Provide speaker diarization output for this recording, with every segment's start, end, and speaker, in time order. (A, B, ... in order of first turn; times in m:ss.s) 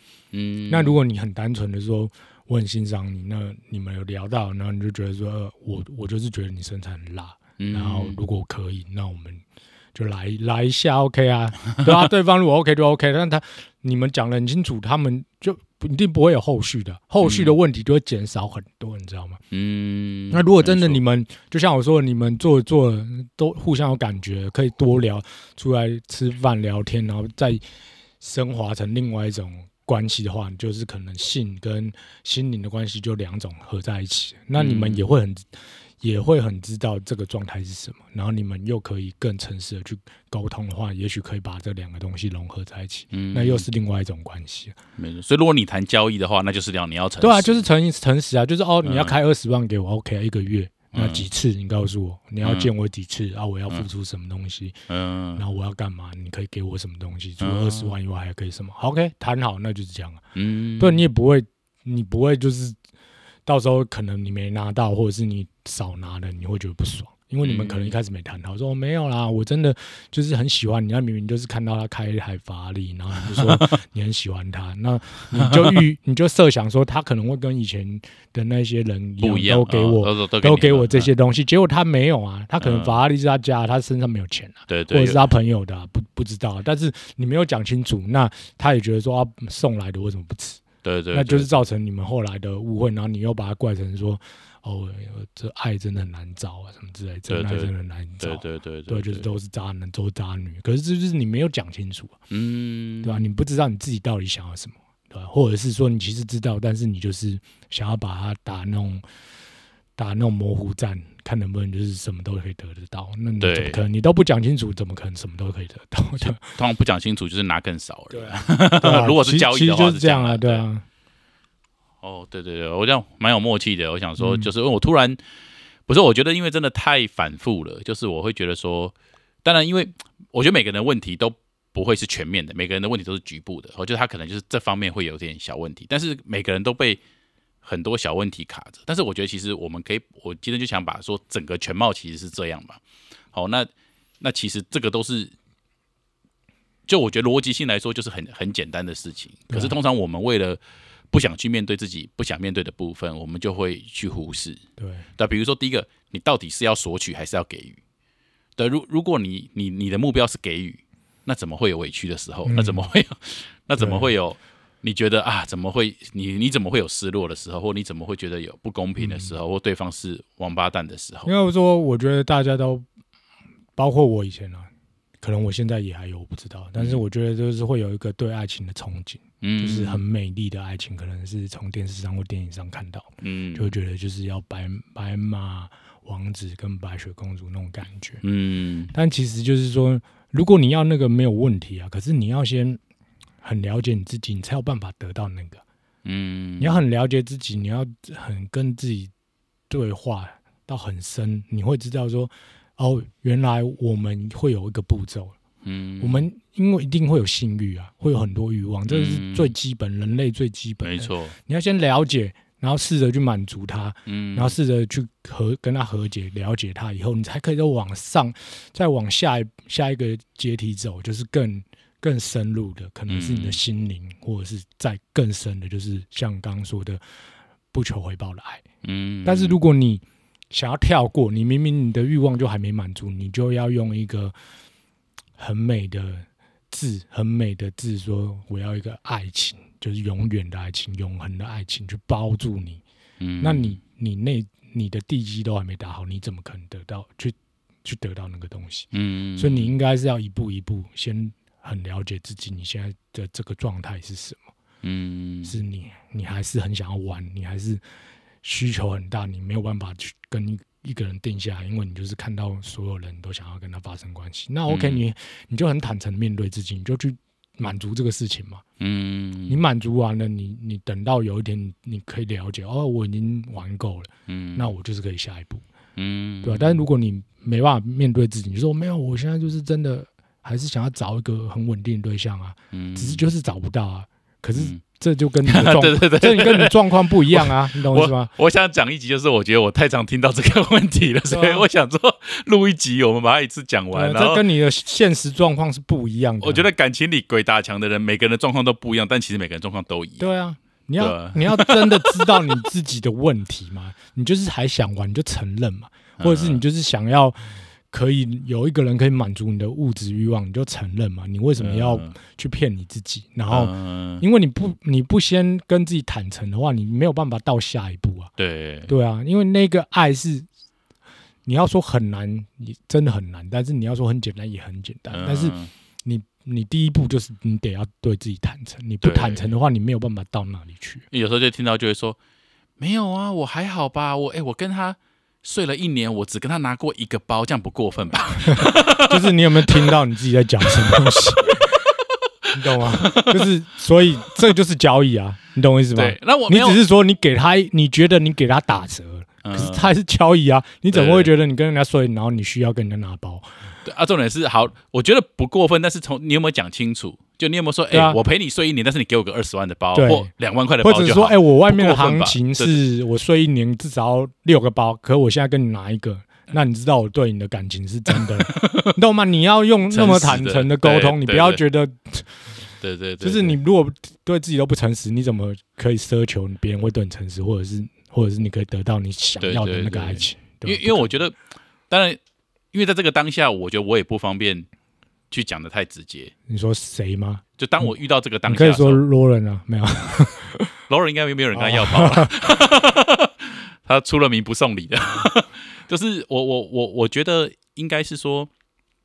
0:00.3-0:01.0 A
0:00.7-0:09.4 B
0:07.6-0:08.2 A
0:10.0-0:19.4 B
0:17.2-0:17.6 A
0:19.5-0:21.0 A
0:20.3-0:27.6 B
0:28.2-0:44.8 B
0:34.6-0:35.1 A
0:43.1-0:43.7 A
0:45.0-0:47.6 A
0:47.2-0:54.8 B
0:48.8-0:49.2 A
0:50.9-0:51.3 A
0:52.4-0:52.7 A
0:54.9-0:55.4 A
0:55.4-1:00.2 B
0:57.4-0:58.0 A
1:00.4-1:01.0 A
1:00.8-1:02.8 B
1:03.5-1:42.2 B
1:07.4-1:08.0 A
1:13.2-1:13.8 A
1:15.4-1:15.8 A
1:19.2-1:21.1 A
1:22.6-1:23.0 A
1:24.7-1:25.3 A
1:30.8-1:31.5 A
1:37.3-1:39.3 A
1:42.3-1:43.3 A
1:43.0-1:49.0 B
1:50.0-1:56.4 B
1:53.4-1:53.8 A
1:56.2-2:00.6 A
1:58.1-2:00.8 B
2:02.0-2:05.2 A
2:04.2-2:04.5 B
2:05.9-2:17.0 A
2:17.6-2:22.8 A
2:23.3-2:23.7 A
2:24.2-2:25.3 A
2:26.9-2:30.6 A
2:29.5-2:29.8 B
2:31.1-2:34.6 A
2:34.8-2:35.1 B
2:35.2-2:37.8 A
2:38.6-2:51.3 A
2:42.5-2:42.9 B
2:43.8-2:44.1 B
2:49.0-2:49.3 B
2:51.3-2:52.9 B
2:53.8-2:54.7 B
2:55.2-3:08.2 B
2:56.8-2:57.0 A
2:59.4-3:00.0 A
3:03.2-3:03.7 A
3:08.2-3:08.9 A
3:08.9-3:12.8 B
3:13.4-3:15.6 B
3:16.0-3:16.8 A
3:16.6-3:19.1 B
3:19.7-3:25.4 B
3:25.6-3:26.3 A
3:26.0-3:47.0 B
3:28.9-3:29.5 A
3:30.8-3:31.4 A
3:34.1-3:34.6 A
3:43.1-3:43.6 A
3:47.7-3:48.6 B
3:48.8-3:49.6 A
3:49.2-3:54.4 B
3:55.4-4:02.8 B
4:03.2-4:03.8 A
4:03.4-4:14.5 B
4:08.9-4:09.8 A
4:14.8-4:15.5 A
4:15.4-4:17.8 B
4:18.4-4:28.6 B
4:24.7-4:25.0 A
4:28.8-4:29.6 A
4:29.5-4:35.6 B
4:34.3-4:34.7 A
4:36.0-4:36.8 A
4:36.4-4:48.3 B
4:42.7-4:43.3 A
4:44.6-4:44.8 A
4:45.4-4:54.4 A
4:51.3-4:51.7 B
4:53.9-4:56.6 B
4:56.4-5:00.3 A
5:00.2-5:18.3 B
5:01.0-5:02.6 A
5:06.2-5:06.6 A
5:11.6-5:12.2 A
5:13.5-5:14.2 A
5:18.4-5:18.9 A
5:18.9-5:20.5 B
5:21.5-5:31.0 B
5:25.1-5:25.7 A
5:29.0-5:29.5 A
5:31.1-5:32.2 A
5:32.8-5:39.9 A
5:38.5-5:41.8 B
5:40.6-5:41.7 A
5:42.5-5:43.5 A
5:42.5-5:53.5 B
5:46.0-5:46.8 A
5:49.4-5:49.9 A
5:50.9-5:51.3 A
5:53.8-6:02.8 A
5:57.9-5:58.2 B
6:00.0-6:12.6 B
6:08.2-6:09.0 A
6:09.9-6:11.6 A
6:12.8-6:13.6 A
6:13.2-6:21.1 B
6:19.4-6:21.4 A
6:21.9-6:22.2 A
6:22.7-6:24.7 A
6:25.3-6:26.3 A
6:26.5-6:27.9 B
6:27.6-6:29.0 A
6:28.5-6:30.7 B
6:30.9-6:38.5 A
6:31.5-6:32.6 B